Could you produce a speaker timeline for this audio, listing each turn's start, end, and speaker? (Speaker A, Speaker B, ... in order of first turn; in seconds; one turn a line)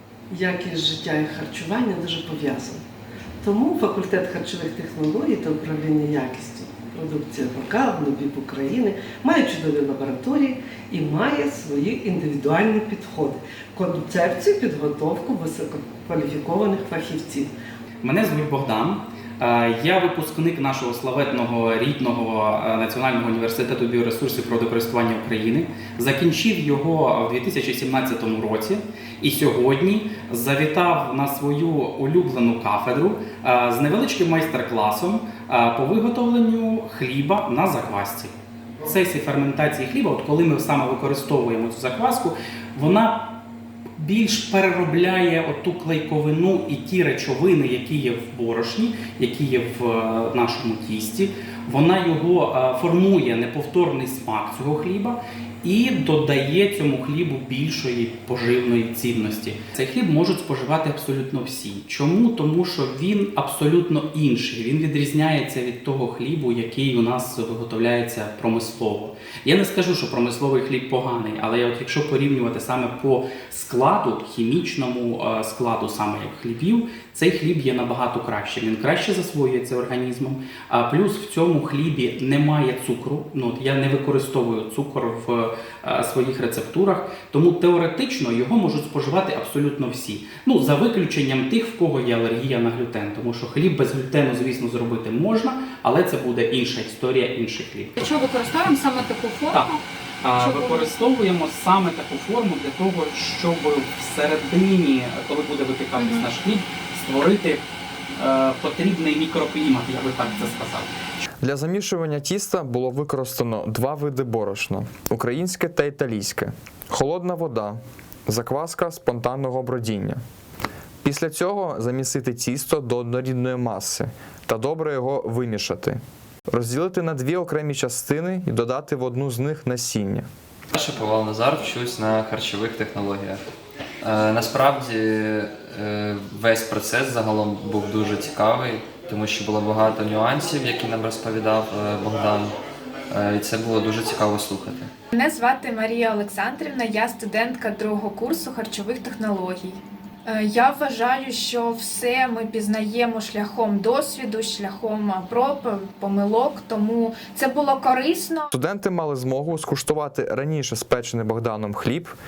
Speaker A: 0.3-2.8
Speaker A: 3.4-17.5
Speaker B: 18.0-43.2
Speaker B: 44.0-98.0
Speaker C: 98.0-99.8
Speaker B: 100.2-107.6
Speaker C: 100.4-100.8
Speaker B: 108.2-110.9
Speaker D: 111.4-120.2
Speaker D: 121.0-126.0
Speaker D: 126.5-130.2
Speaker E: 130.7-133.4
Speaker E: 134.0-142.5
Speaker E: 143.1-144.9
Speaker F: 145.1-158.5
Speaker D: 158.5-162.1